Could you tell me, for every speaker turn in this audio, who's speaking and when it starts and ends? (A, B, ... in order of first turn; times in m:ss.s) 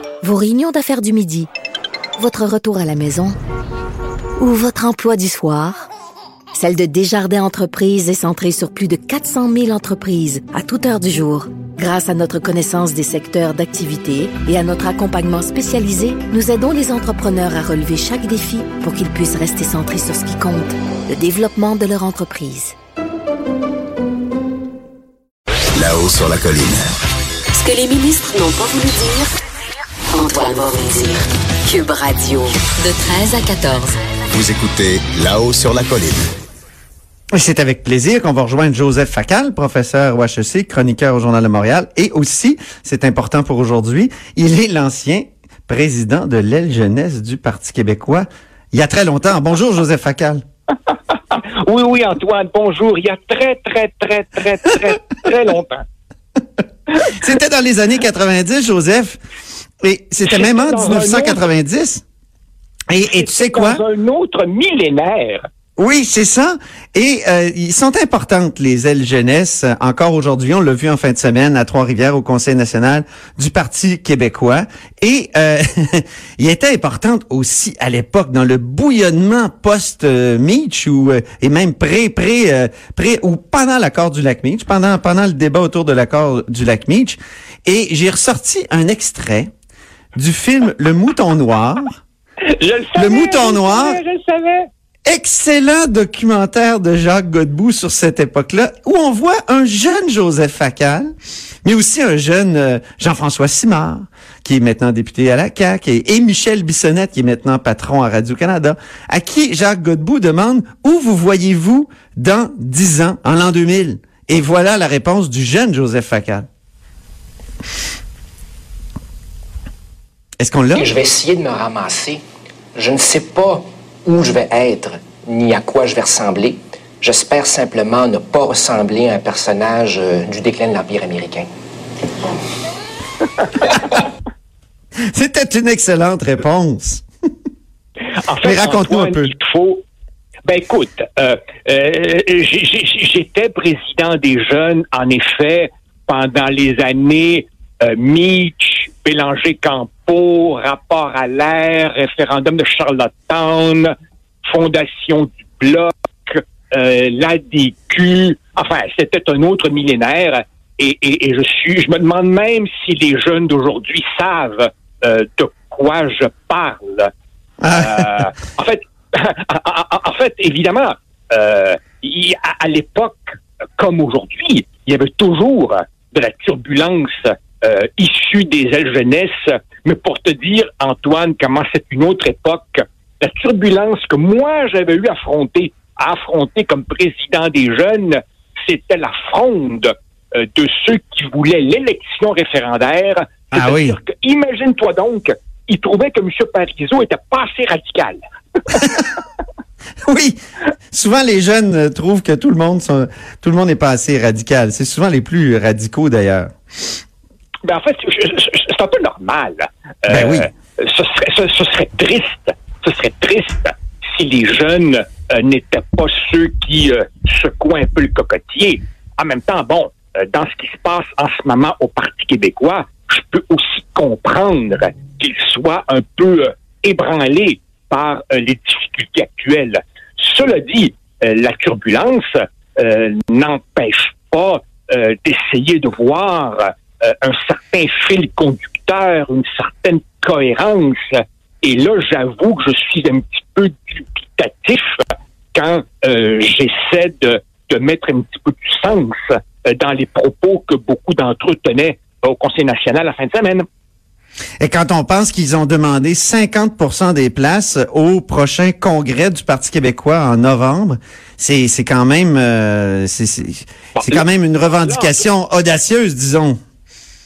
0:00.2-0:01.5 A
0:02.2-0:03.4 A
0:04.4-0:05.9 A
0:06.5-0:22.7 A
0:25.8-0:26.9 B
0:27.6-0:29.2 C
0:30.2-0:31.1 C
0:31.7-0:33.9 C
0:34.3-0:36.3 B
0:37.3-0:50.4 D
0:50.9-0:55.8 E
0:57.2-0:59.2 D
0:59.8-1:02.0 D
1:00.2-1:01.4 E
1:02.9-1:03.8 D
1:03.0-1:05.4 E
1:05.8-1:29.5 D
1:30.1-1:32.0 D
1:32.5-1:34.7 E
1:33.0-1:34.0 D
1:35.0-1:41.1 D
1:41.6-1:56.5 D
2:00.4-2:00.9 D
2:00.8-2:02.2 F
2:02.8-2:11.5 F
2:15.1-2:17.0 D
2:18.2-2:19.8 E
2:18.4-2:19.3 D
2:20.4-2:33.9 E
2:34.4-2:47.1 E
2:47.6-2:48.2 D
2:47.7-3:18.9 E
3:13.5-3:14.0 D
3:20.0-3:20.4 D
3:20.9-3:26.5 D
3:27.6-4:13.6 E
3:30.1-3:30.5 D
4:14.6-4:26.6 D
4:24.0-4:24.3 E
4:24.8-4:25.2 E